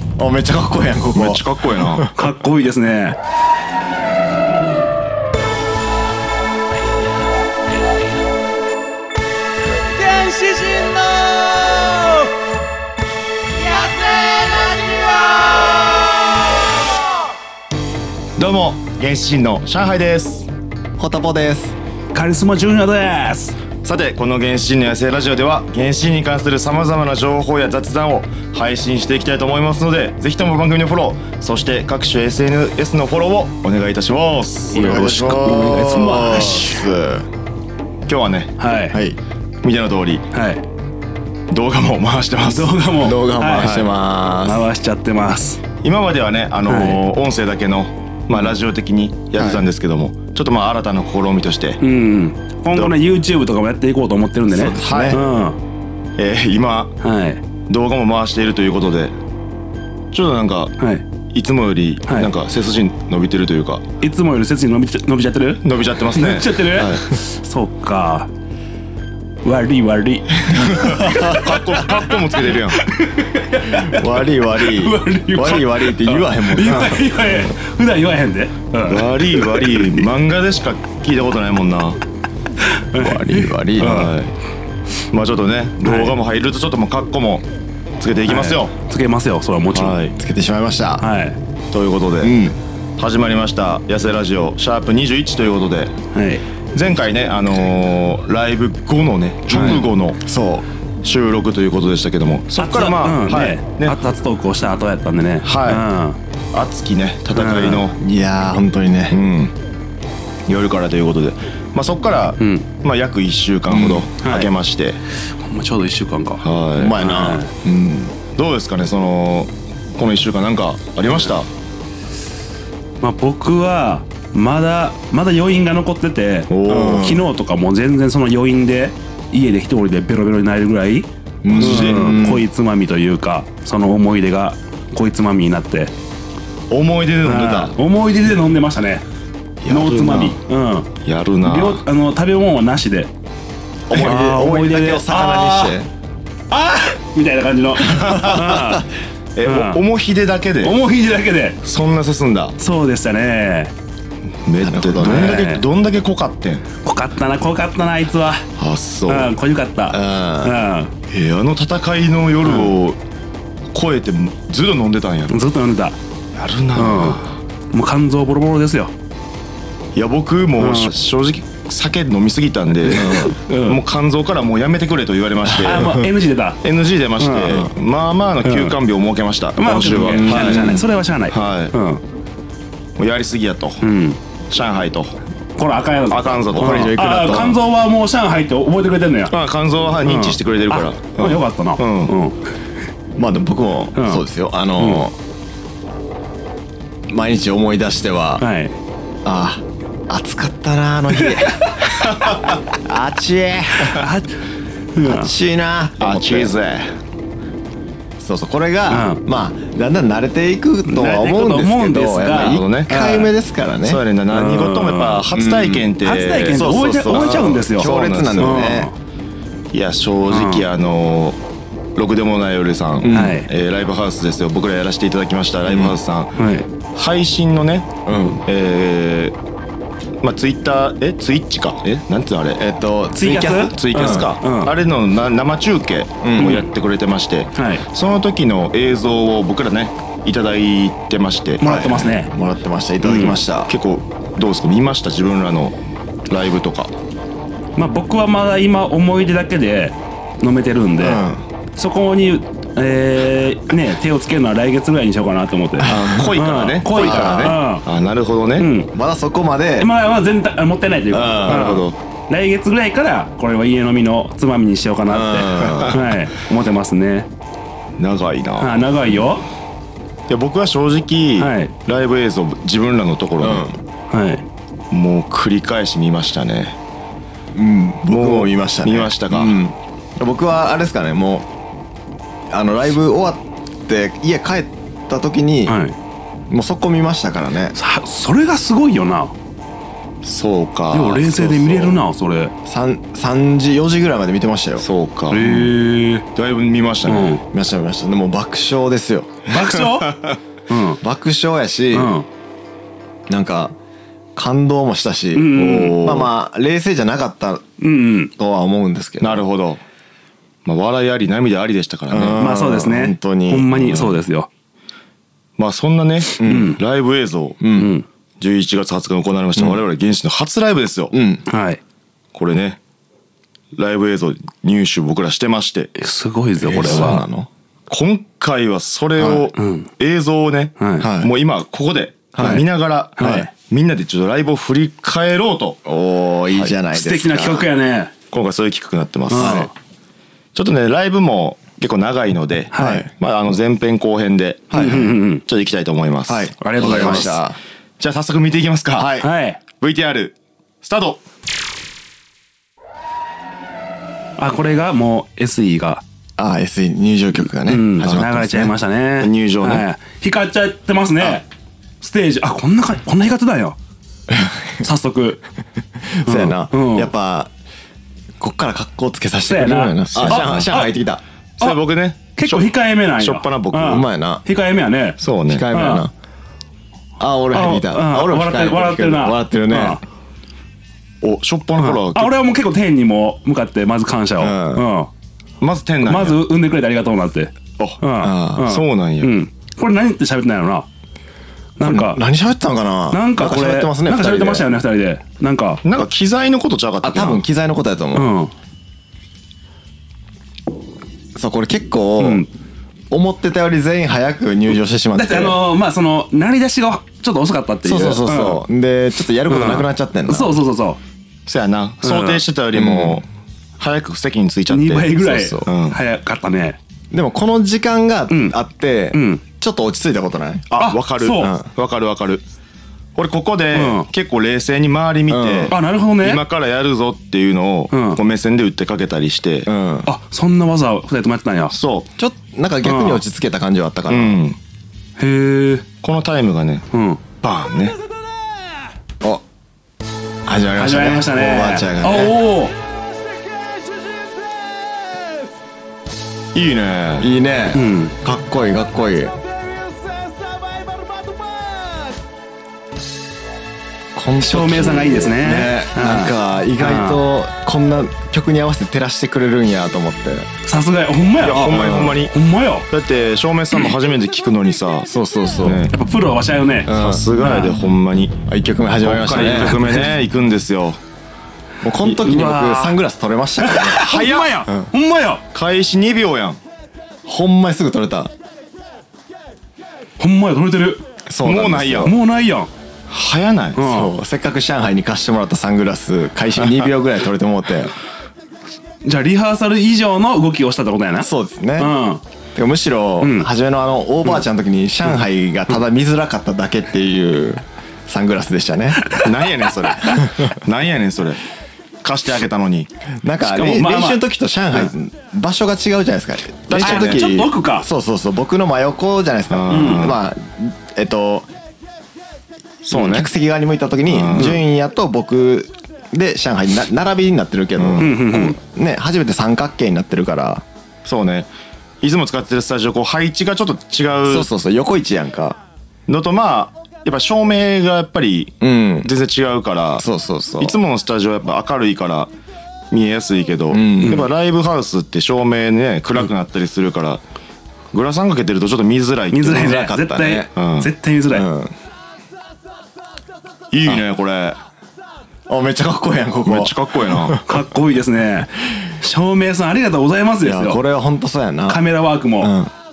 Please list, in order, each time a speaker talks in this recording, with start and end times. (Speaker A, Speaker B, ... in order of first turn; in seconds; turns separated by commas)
Speaker A: 0.2-2.1, Speaker B: 1.1-2.1, Speaker C: 2.1-3.2, Speaker D: 9.9-12.3, Speaker D: 13.6-15.6, Speaker B: 18.4-20.5, Speaker A: 21.0-21.8, Speaker C: 22.1-23.6, Speaker B: 23.8-35.2, Speaker A: 34.7-37.3, Speaker C: 34.7-36.9, Speaker B: 38.1-38.5, Speaker C: 38.6-39.0, Speaker A: 38.9-39.2, Speaker B: 39.6-40.2, Speaker C: 40.3-40.6, Speaker B: 41.5-42.8, Speaker C: 42.4-43.8, Speaker A: 42.9-44.7, Speaker C: 44.4-45.6, Speaker B: 45.8-51.8, Speaker C: 46.7-47.0, Speaker A: 49.4-49.6, Speaker C: 51.8-55.6, Speaker A: 54.5-55.2, Speaker B: 54.8-55.2, Speaker B: 56.2-56.9, Speaker C: 57.0-57.4, Speaker B: 57.7-59.1, Speaker B: 60.1-60.7, Speaker B: 61.3-63.8, Speaker C: 64.0-68.3, Speaker B: 65.6-67.0, Speaker C: 69.4-80.1, Speaker B: 70.6-72.8, Speaker A: 73.7-77.5, Speaker B: 78.8-82.0, Speaker C: 82.7-84.1, Speaker A: 83.0-84.1, Speaker B: 83.8-84.3, Speaker B: 85.1-87.5, Speaker C: 85.8-86.2, Speaker B: 88.0-88.7, Speaker C: 88.2-90.0, Speaker B: 89.7-90.1, Speaker A: 90.2-91.1, Speaker C: 91.0-91.4, Speaker B: 91.7-92.5, Speaker A: 92.2-92.6, Speaker B: 93.0-96.0, Speaker C: 96.1-96.4, Speaker B: 96.7-100.2, Speaker A: 99.5-100.6, Speaker B: 101.0-104.0, Speaker C: 102.6-106.2, Speaker B: 105.4-105.8, Speaker B: 106.5-108.0, Speaker C: 107.3-107.9, Speaker A: 108.0-109.2, Speaker B: 109.1-109.5, Speaker B: 110.5-115.0, Speaker C: 112.4-112.7, Speaker A: 113.7-114.1, Speaker C: 114.2-114.5, Speaker C: 115.2-117.5, Speaker B: 116.4-116.9, Speaker A: 116.7-118.1, Speaker B: 118.3-121.5, Speaker C: 123.0-135.9, Speaker B: 126.5-127.2, Speaker A: 126.7-127.2, Speaker A: 131.4-132.4, Speaker B: 131.5-132.0, Speaker B: 136.7-137.7, Speaker C: 137.2-139.0, Speaker B: 139.6-140.4, Speaker C: 139.7-140.9, Speaker B: 141.0-141.8, Speaker C: 141.4-143.1, Speaker A: 143.9-145.9, Speaker C: 143.9-145.8, Speaker C: 146.5-148.8, Speaker A: 147.8-148.8, Speaker B: 149.3-150.8, Speaker C: 149.4-149.8, Speaker C: 150.6-151.6, Speaker B: 151.6-152.5, Speaker C: 152.6-153.7, Speaker B: 154.4-156.6, Speaker A: 154.6-155.4, Speaker C: 155.0-155.6, Speaker C: 156.8-158.4, Speaker B: 158.6-159.3, Speaker C: 159.1-160.9, Speaker A: 159.9-160.6, Speaker B: 161.1-163.0, Speaker C: 162.4-162.7, Speaker B: 163.7-165.4, Speaker C: 165.3-166.0, Speaker B: 166.3-167.3, Speaker C: 166.7-168.9, Speaker B: 169.9-176.0, Speaker C: 170.6-170.9, Speaker A: 172.8-173.4, Speaker C: 172.9-173.8, Speaker C: 175.5-176.6, Speaker B: 176.6-181.7, Speaker C: 177.2-177.6, Speaker C: 178.4-178.8, Speaker C: 179.6-182.0, Speaker A: 180.1-180.8, Speaker B: 183.0-183.8, Speaker C: 183.8-184.2, Speaker B: 184.5-185.2, Speaker C: 185.6-189.3, Speaker B: 186.1-186.9, Speaker A: 186.5-187.6, Speaker B: 189.3-192.1, Speaker C: 190.0-192.4, Speaker A: 193.2-195.1, Speaker C: 193.9-194.2, Speaker C: 194.8-195.1, Speaker A: 197.1-198.4, Speaker C: 198.4-198.7, Speaker A: 199.2-201.8, Speaker B: 202.1-202.4, Speaker A: 202.7-204.0, Speaker C: 203.8-204.4, Speaker C: 204.9-205.3, Speaker A: 205.0-206.5, Speaker B: 206.0-206.9, Speaker A: 208.2-214.0, Speaker C: 208.9-209.2, Speaker C: 210.8-212.6, Speaker B: 212.4-213.2, Speaker B: 213.8-218.6, Speaker C: 214.3-215.2, Speaker A: 215.3-215.9, Speaker C: 216.0-218.9, Speaker A: 216.5-218.9, Speaker B: 219.7-221.4, Speaker C: 220.3-220.6, Speaker B: 221.9-226.3, Speaker A: 223.0-223.4, Speaker C: 223.1-223.5, Speaker A: 225.7-225.9, Speaker C: 226.4-226.7, Speaker B: 226.9-229.3, Speaker A: 228.1-228.4, Speaker B: 230.2-232.6, Speaker A: 232.6-234.3, Speaker C: 233.1-234.7, Speaker B: 233.7-241.6, Speaker A: 236.2-236.6, Speaker C: 236.4-236.6, Speaker C: 237.5-237.8, Speaker C: 241.6-242.3, Speaker A: 241.6-243.7, Speaker C: 243.0-243.4, Speaker B: 243.7-245.7, Speaker B: 246.3-246.9, Speaker C: 247.8-257.8, Speaker A: 251.0-251.4, Speaker A: 255.8-256.3, Speaker B: 255.8-258.7, Speaker A: 256.9-257.6, Speaker C: 258.6-258.9, Speaker A: 258.9-259.9, Speaker C: 259.8-267.3, Speaker A: 261.1-261.8, Speaker B: 261.4-261.9, Speaker A: 265.1-266.0, Speaker B: 268.0-268.9, Speaker C: 268.6-269.4, Speaker B: 270.3-273.7, Speaker C: 271.4-271.7, Speaker A: 273.4-273.8, Speaker C: 274.1-274.4, Speaker B: 274.9-276.8, Speaker A: 277.5-281.5, Speaker B: 278.1-279.6, Speaker A: 282.5-285.8, Speaker C: 285.7-285.9, Speaker A: 286.5-287.7, Speaker C: 287.7-289.3, Speaker B: 290.2-292.0, Speaker C: 290.9-292.5, Speaker A: 292.6-294.9, Speaker B: 294.8-295.7, Speaker C: 295.3-296.2, Speaker B: 296.3-297.4, Speaker C: 297.1-297.4, Speaker A: 297.5-299.4, Speaker B: 299.5-300.4, Speaker C: 299.5-301.0, Speaker A: 301.0-302.1, Speaker C: 301.9-302.2, Speaker A: 303.3-303.8, Speaker A: 304.3-307.6, Speaker C: 305.3-306.0, Speaker B: 305.5-306.3, Speaker C: 307.8-308.3, Speaker A: 308.4-309.4, Speaker B: 309.2-309.8, Speaker B: 310.6-312.4, Speaker A: 312.1-314.2, Speaker C: 312.4-314.5, Speaker B: 315.6-317.6, Speaker A: 316.4-316.8, Speaker C: 316.4-316.8, Speaker A: 317.6-317.9, Speaker C: 317.7-318.1, Speaker B: 318.4-321.1, Speaker A: 321.1-321.4, Speaker C: 321.5-321.8, Speaker B: 322.3-322.8, Speaker B: 323.7-325.9, Speaker C: 326.0-327.2, Speaker A: 326.6-327.5, Speaker B: 326.7-327.2, Speaker B: 327.9-335.8, Speaker A: 329.2-329.5, Speaker C: 329.6-329.9, Speaker C: 330.8-331.1, Speaker A: 331.0-331.3, Speaker A: 332.3-332.6, Speaker C: 333.2-333.5, Speaker A: 333.2-333.5, Speaker A: 335.8-337.7, Speaker C: 336.9-338.1, Speaker B: 338.3-339.7, Speaker A: 339.3-339.7, Speaker C: 339.3-339.7, Speaker B: 340.5-347.4, Speaker C: 342.7-343.1, Speaker A: 342.7-343.1, Speaker A: 344.7-345.1, Speaker C: 344.7-345.4, Speaker A: 346.3-347.6, Speaker C: 346.6-347.4, Speaker B: 348.0-349.2, Speaker A: 348.9-349.3, Speaker C: 349.2-349.6, Speaker B: 349.8-351.2, Speaker C: 354.4-356.0, Speaker A: 356.4-358.7, Speaker C: 357.6-361.4, Speaker B: 359.2-359.9, Speaker C: 362.0-363.8, Speaker A: 364.3-364.8, Speaker C: 364.8-365.4, Speaker A: 366.0-367.5, Speaker C: 366.2-367.1, Speaker A: 368.4-371.2, Speaker C: 369.4-370.9, Speaker B: 370.1-370.7, Speaker B: 371.6-374.0, Speaker C: 371.6-376.1, Speaker A: 373.7-374.4, Speaker B: 375.2-375.7, Speaker A: 375.4-376.1, Speaker A: 377.2-380.0, Speaker C: 377.5-380.0, Speaker B: 381.2-382.3, Speaker C: 381.8-385.1, Speaker A: 384.4-384.9, Speaker B: 385.6-386.4, Speaker C: 386.0-390.9, Speaker A: 388.2-388.6, Speaker B: 388.6-389.3, Speaker C: 391.8-392.2, Speaker A: 391.8-394.7, Speaker C: 393.1-395.8, Speaker B: 395.8-397.4, Speaker A: 397.0-398.3, Speaker C: 398.1-398.5, Speaker A: 401.3-402.4, Speaker C: 402.2-402.5, Speaker A: 403.1-405.6, Speaker C: 405.1-408.6, Speaker A: 407.8-410.5, Speaker C: 409.4-411.0, Speaker B: 411.5-413.2, Speaker C: 412.0-412.4, Speaker A: 412.7-413.2, Speaker B: 413.8-416.0, Speaker C: 414.7-416.8, Speaker A: 415.2-415.7, Speaker A: 417.1-420.7, Speaker C: 418.3-418.6, Speaker C: 419.1-419.4, Speaker B: 420.7-422.4, Speaker C: 420.8-421.5, Speaker A: 421.4-421.7, Speaker B: 423.1-429.7, Speaker C: 423.7-424.1, Speaker A: 425.3-425.7, Speaker C: 425.7-426.4, Speaker C: 427.9-428.2, Speaker A: 429.6-430.1, Speaker C: 430.1-431.7, Speaker B: 431.7-432.1, Speaker A: 432.2-434.4, Speaker C: 432.8-433.2, Speaker B: 434.1-434.6, Speaker C: 435.2-435.9, Speaker B: 436.0-436.8, Speaker C: 436.9-437.2, Speaker B: 437.4-438.0, Speaker D: 438.0-438.9, Speaker A: 440.4-442.4, Speaker C: 440.8-442.7, Speaker D: 442.7-445.6, Speaker B: 446.5-447.3, Speaker A: 447.2-449.4, Speaker C: 447.7-448.1, Speaker D: 449.3-452.2, Speaker A: 454.1-460.5, Speaker C: 454.4-457.2, Speaker C: 460.6-462.9, Speaker B: 461.4-462.3, Speaker A: 461.7-462.2, Speaker B: 462.9-465.9, Speaker A: 465.1-465.9, Speaker C: 465.9-467.7, Speaker A: 466.8-467.3, Speaker B: 466.9-468.4, Speaker A: 468.4-470.1, Speaker B: 469.0-471.0, Speaker A: 471.8-474.1, Speaker C: 472.1-473.0, Speaker C: 473.6-475.4, Speaker B: 474.0-474.6, Speaker B: 475.5-476.6, Speaker A: 477.2-478.3, Speaker C: 480.2-481.0, Speaker A: 481.3-482.1, Speaker B: 481.4-482.1, Speaker C: 482.0-482.7, Speaker B: 483.1-483.8, Speaker C: 483.7-484.1, Speaker A: 483.8-487.9, Speaker C: 489.0-492.2, Speaker A: 491.2-491.9, Speaker A: 492.5-499.0, Speaker C: 493.2-493.5, Speaker C: 499.0-500.2, Speaker B: 499.1-501.4, Speaker B: 502.0-502.9, Speaker A: 503.2-511.5, Speaker C: 503.4-504.9, Speaker B: 506.7-507.3, Speaker C: 506.7-507.9, Speaker B: 509.5-510.2, Speaker C: 509.7-510.1, Speaker B: 512.8-513.3, Speaker A: 512.9-520.6, Speaker B: 514.0-514.6, Speaker C: 514.4-514.6, Speaker B: 517.8-518.1, Speaker C: 518.0-518.6, Speaker B: 521.0-521.5, Speaker B: 522.0-524.5, Speaker A: 524.3-525.6, Speaker B: 526.1-530.0, Speaker A: 528.6-529.1, Speaker A: 530.0-530.8, Speaker B: 530.6-532.3, Speaker B: 532.9-537.2, Speaker A: 533.7-534.3, Speaker B: 537.9-539.8, Speaker C: 539.3-541.5, Speaker A: 539.4-540.5, Speaker B: 540.5-540.9, Speaker A: 541.3-541.7, Speaker B: 543.7-544.6, Speaker A: 545.5-547.5, Speaker B: 546.4-547.4, Speaker C: 547.5-550.8, Speaker A: 550.4-551.8, Speaker C: 551.7-552.5, Speaker A: 552.4-552.7